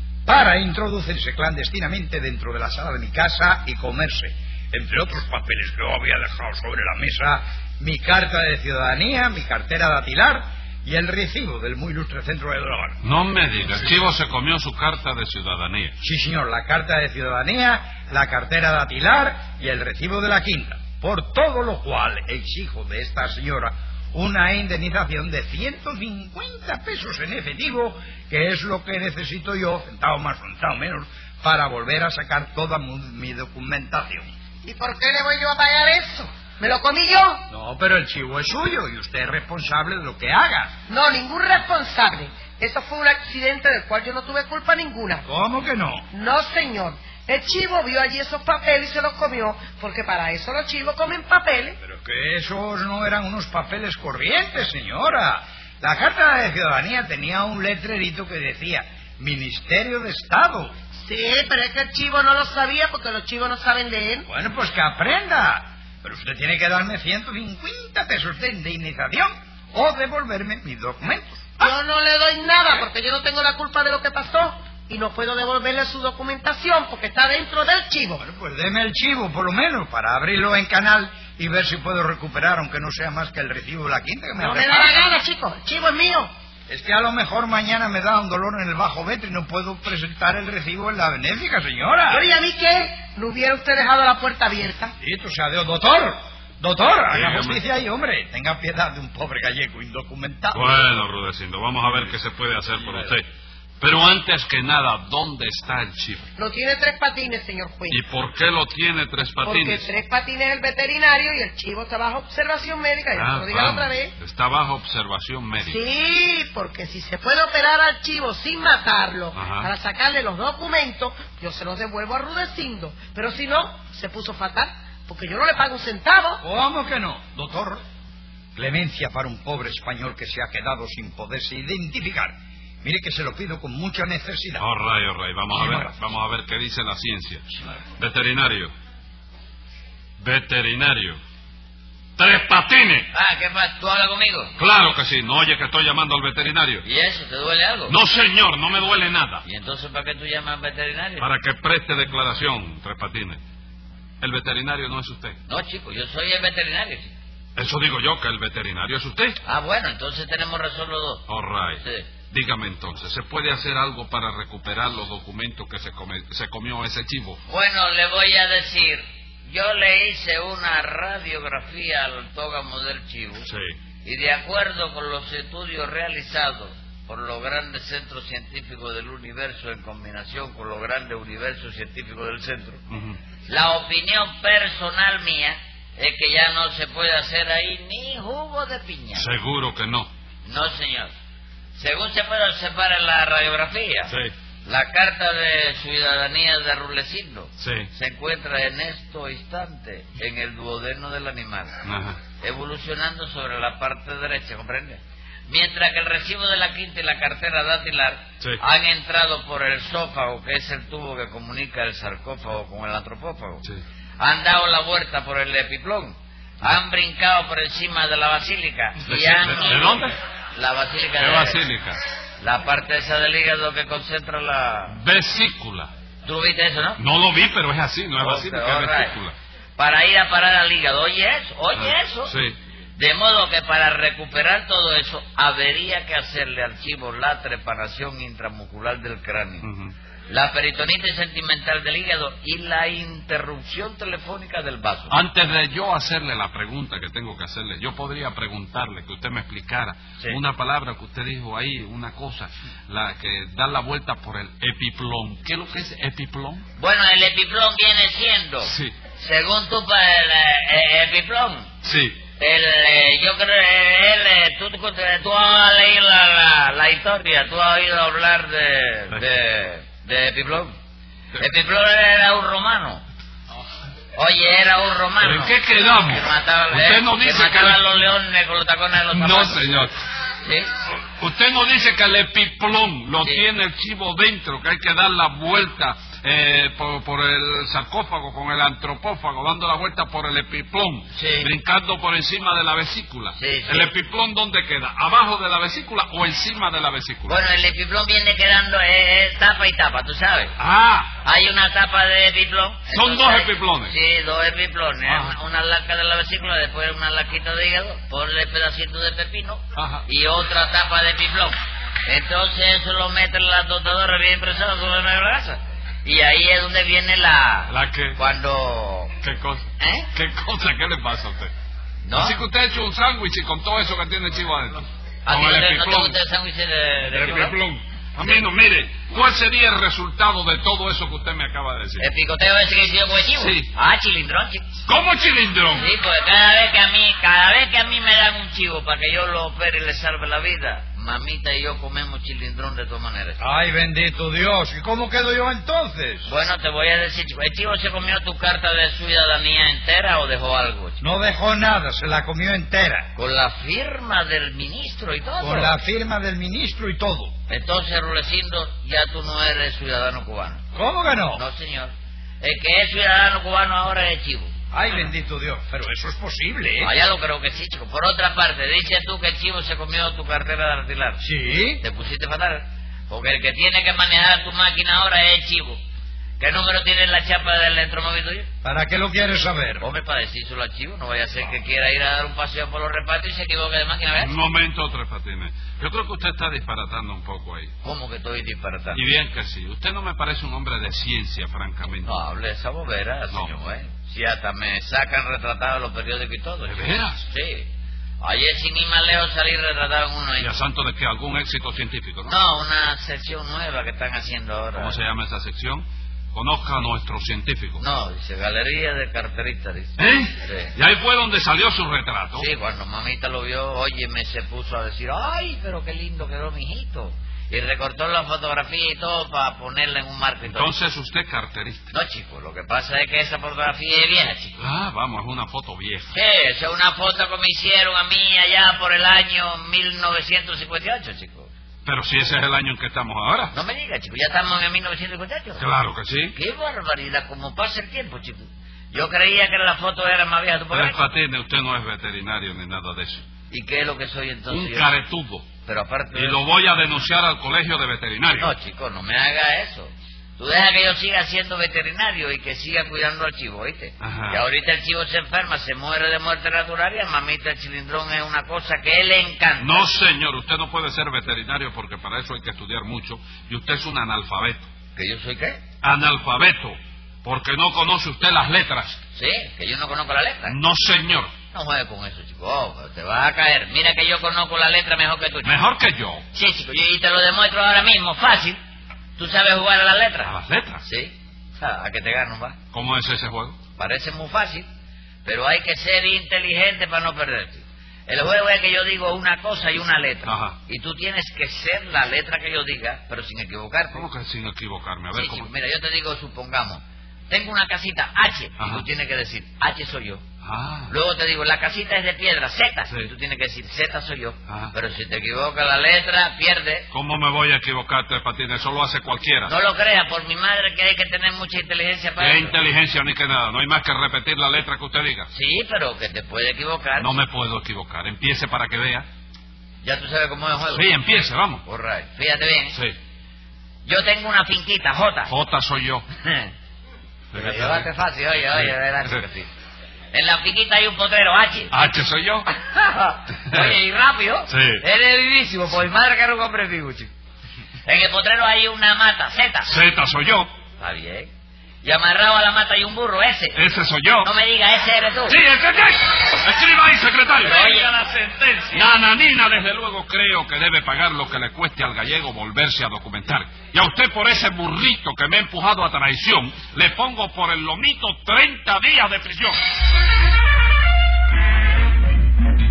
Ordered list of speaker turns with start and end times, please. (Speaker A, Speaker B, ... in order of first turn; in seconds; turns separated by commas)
Speaker A: 0.2-13.0, Speaker B: 13.0-15.9, Speaker A: 16.0-34.3, Speaker C: 34.6-37.4, Speaker A: 37.5-40.7, Speaker C: 40.9-45.2, Speaker A: 45.2-46.1, Speaker C: 46.1-51.8, Speaker A: 51.8-60.7, Speaker C: 61.0-64.3, Speaker A: 64.2-71.7, Speaker C: 71.6-78.2, Speaker A: 78.2-85.0, Speaker C: 84.4-86.3, Speaker A: 86.7-92.2, Speaker C: 92.1-94.9, Speaker A: 95.0-100.9, Speaker B: 97.1-97.6, Speaker B: 100.5-103.3, Speaker B: 103.8-106.3, Speaker C: 106.4-108.0, Speaker B: 107.9-109.9, Speaker C: 109.4-114.1, Speaker B: 113.1-115.8, Speaker C: 115.6-126.4, Speaker B: 119.3-119.7, Speaker A: 126.4-127.8, Speaker A: 128.5-134.7, Speaker B: 134.6-137.4, Speaker A: 135.5-135.9, Speaker B: 138.0-138.7, Speaker B: 140.2-141.2, Speaker B: 142.2-143.1, Speaker D: 143.1-144.5, Speaker B: 144.6-146.8, Speaker D: 146.8-147.9, Speaker B: 147.9-149.4, Speaker D: 149.4-151.3, Speaker B: 151.2-153.4, Speaker B: 154.2-155.4, Speaker D: 155.5-157.1, Speaker B: 157.6-159.4, Speaker D: 159.4-161.2, Speaker B: 161.3-167.4, Speaker D: 161.8-162.1, Speaker D: 167.5-173.5, Speaker B: 173.4-173.7, Speaker D: 174.0-182.8, Speaker B: 182.9-183.2, Speaker D: 183.5-189.3, Speaker B: 189.1-190.1, Speaker D: 190.4-191.1, Speaker D: 191.8-194.1, Speaker B: 194.1-194.3, Speaker D: 194.6-201.8, Speaker B: 197.6-197.9, Speaker B: 201.8-202.2, Speaker D: 202.4-213.6, Speaker D: 214.2-221.6, Speaker B: 219.0-220.1, Speaker B: 221.2-222.0, Speaker D: 222.4-225.0, Speaker B: 224.9-225.9, Speaker D: 226.2-227.0, Speaker B: 227.0-229.3, Speaker D: 228.2-229.2, Speaker D: 229.8-232.3, Speaker B: 231.8-232.6, Speaker D: 232.9-239.7, Speaker B: 239.6-239.9, Speaker D: 240.3-245.2, Speaker B: 245.1-256.6, Speaker D: 256.8-261.7, Speaker B: 258.6-258.9, Speaker B: 261.8-262.2, Speaker D: 262.4-270.7, Speaker D: 271.4-273.0, Speaker D: 274.1-279.9, Speaker B: 275.2-277.8, Speaker B: 279.1-279.9, Speaker D: 280.4-280.7, Speaker B: 281.1-297.4, Speaker D: 291.1-291.5, Speaker D: 293.4-293.9, Speaker D: 297.2-300.5, Speaker B: 300.6-301.1, Speaker D: 301.2-319.1, Speaker B: 302.9-303.9, Speaker B: 305.1-305.3, Speaker B: 309.8-310.0, Speaker B: 317.7-318.2, Speaker B: 319.2-321.5, Speaker D: 319.8-320.1, Speaker D: 322.0-322.4, Speaker B: 322.1-326.1, Speaker D: 325.2-327.6, Speaker B: 327.1-332.1, Speaker D: 332.0-334.7, Speaker B: 333.4-333.7, Speaker B: 334.9-335.9, Speaker D: 335.7-343.4, Speaker A: 343.4-346.3, Speaker D: 346.2-351.0, Speaker A: 351.0-353.1, Speaker D: 353.1-355.7, Speaker A: 355.4-357.3, Speaker D: 357.5-360.6, Speaker A: 360.7-361.4, Speaker D: 361.3-364.5, Speaker A: 364.7-366.9, Speaker D: 366.8-371.2, Speaker A: 371.2-371.8, Speaker D: 371.8-375.8, Speaker D: 376.4-378.5, Speaker A: 378.6-379.9, Speaker D: 379.8-384.4, Speaker B: 384.2-387.7, Speaker D: 387.8-389.0, Speaker B: 388.9-392.1, Speaker D: 392.0-397.7, Speaker B: 396.6-397.2, Speaker D: 398.2-400.5, Speaker B: 400.4-402.4, Speaker D: 402.3-405.0, Speaker B: 404.8-407.8, Speaker D: 407.8-410.7, Speaker B: 410.0-412.5, Speaker D: 412.4-420.7, Speaker B: 420.4-421.9, Speaker D: 421.9-424.6, Speaker B: 424.6-426.1, Speaker D: 426.1-431.5, Speaker B: 431.8-433.5, Speaker D: 433.5-435.6, Speaker B: 435.6-436.3, Speaker D: 436.3-441.0, Speaker B: 440.7-443.2, Speaker D: 443.5-444.9, Speaker B: 444.5-445.5, Speaker D: 445.6-446.4, Speaker B: 446.1-448.5, Speaker D: 448.4-459.8, Speaker B: 454.0-454.4, Speaker B: 459.6-464.7, Speaker D: 464.9-465.6, Speaker B: 465.8-469.0, Speaker D: 469.1-470.6, Speaker B: 470.4-471.3, Speaker D: 471.5-475.6, Speaker B: 475.4-476.2, Speaker D: 476.3-478.6, Speaker D: 479.2-480.3, Speaker B: 480.2-480.8, Speaker D: 480.8-482.6, Speaker B: 482.7-483.6, Speaker D: 483.8-484.7, Speaker D: 485.2-494.1, Speaker B: 490.2-490.6, Speaker B: 493.9-495.5, Speaker D: 495.1-500.2, Speaker B: 498.6-498.8, Speaker B: 500.4-500.9, Speaker D: 500.9-506.9, Speaker B: 504.5-504.7, Speaker B: 506.9-509.5, Speaker D: 509.4-512.6, Speaker B: 512.2-515.3, Speaker D: 515.3-517.1, Speaker B: 517.0-519.0, Speaker D: 519.8-520.9, Speaker B: 520.7-521.6, Speaker D: 521.6-522.8, Speaker D: 523.8-525.3, Speaker B: 525.2-526.0, Speaker D: 526.2-526.5, Speaker B: 527.3-527.9, Speaker D: 527.3-529.5, Speaker B: 528.5-529.2, Speaker D: 530.1-531.7, Speaker B: 531.7-532.5, Speaker D: 532.5-537.1, Speaker B: 534.5-534.8, Speaker D: 537.8-539.7, Speaker B: 539.6-540.5, Speaker D: 540.8-541.3, Speaker D: 541.8-543.6, Speaker B: 543.5-544.3, Speaker D: 544.2-545.4, Speaker B: 545.3-559.6, Speaker D: 547.4-547.9